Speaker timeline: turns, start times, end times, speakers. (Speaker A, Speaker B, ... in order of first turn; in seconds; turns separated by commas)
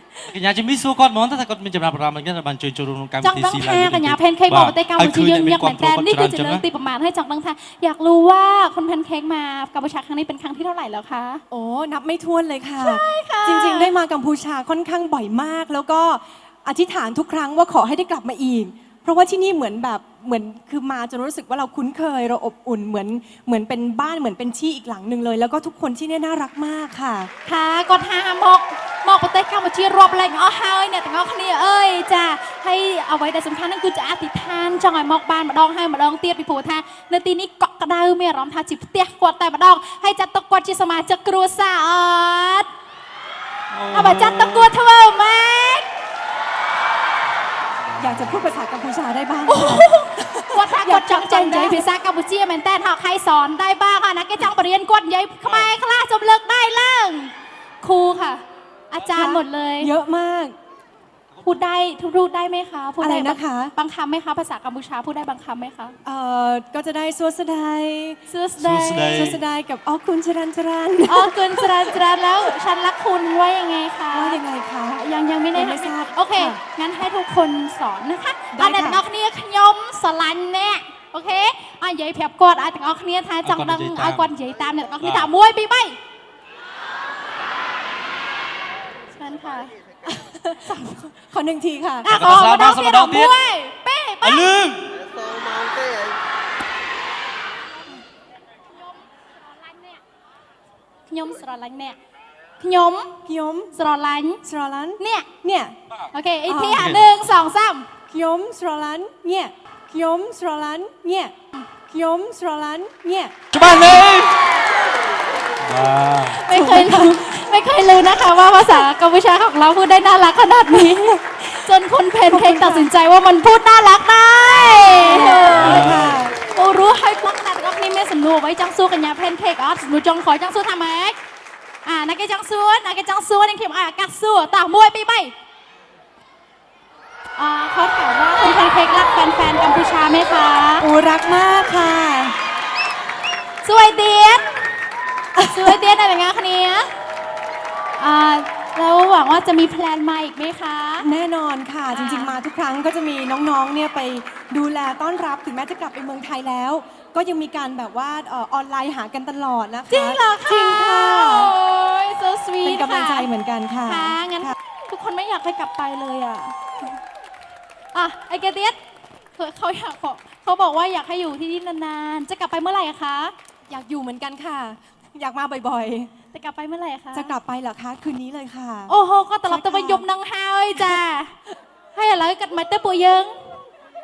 Speaker A: 0.2-6.7, Speaker B: 3.2-11.4, Speaker C: 11.5-27.3, Speaker B: 12.8-13.9, Speaker B: 27.5-42.7, Speaker A: 43.7-44.8, Speaker B: 43.9-45.9, Speaker A: 47.9-48.4, Speaker C: 48.0-51.8, Speaker B: 49.5-59.9, Speaker A: 55.4-55.7, Speaker C: 59.1-60.5, Speaker B: 61.4-66.0, Speaker C: 63.0-63.7, Speaker C: 66.0-68.2, Speaker B: 68.3-69.4, Speaker A: 68.6-69.4, Speaker C: 69.1-72.0, Speaker B: 71.1-74.4, Speaker C: 74.1-75.0, Speaker B: 75.0-86.0, Speaker C: 75.5-76.6, Speaker C: 78.5-79.0, Speaker A: 83.4-84.3, Speaker A: 85.0-85.3, Speaker B: 89.1-89.8, Speaker C: 90.0-92.1, Speaker B: 92.0-94.5, Speaker A: 92.1-93.3, Speaker A: 94.2-95.1, Speaker B: 99.5-100.0, Speaker B: 101.1-102.0, Speaker B: 102.6-103.2, Speaker C: 103.3-103.7, Speaker B: 103.7-104.4, Speaker C: 104.4-105.8, Speaker B: 105.0-105.3, Speaker B: 106.1-107.9, Speaker C: 106.5-107.0, Speaker A: 106.7-107.3, Speaker C: 108.1-111.3, Speaker C: 111.9-113.3, Speaker A: 113.5-114.5, Speaker A: 115.6-116.4, Speaker B: 116.4-131.2, Speaker C: 116.5-117.2, Speaker C: 122.3-122.9, Speaker C: 124.9-126.4, Speaker A: 125.5-126.2, Speaker B: 131.8-135.3, Speaker B: 137.4-140.9, Speaker C: 140.8-142.4, Speaker B: 143.6-144.6, Speaker C: 145.4-145.8, Speaker B: 145.5-146.9, Speaker B: 148.0-151.1, Speaker C: 151.0-161.6, Speaker B: 151.9-152.4, Speaker B: 159.9-163.3, Speaker C: 162.6-164.6, Speaker B: 163.9-166.6, Speaker B: 167.9-168.8, Speaker B: 169.3-173.3, Speaker C: 173.7-176.1, Speaker B: 176.3-177.3, Speaker C: 177.1-178.9, Speaker B: 178.9-181.3, Speaker C: 179.5-180.0, Speaker C: 180.7-181.0, Speaker B: 181.9-183.3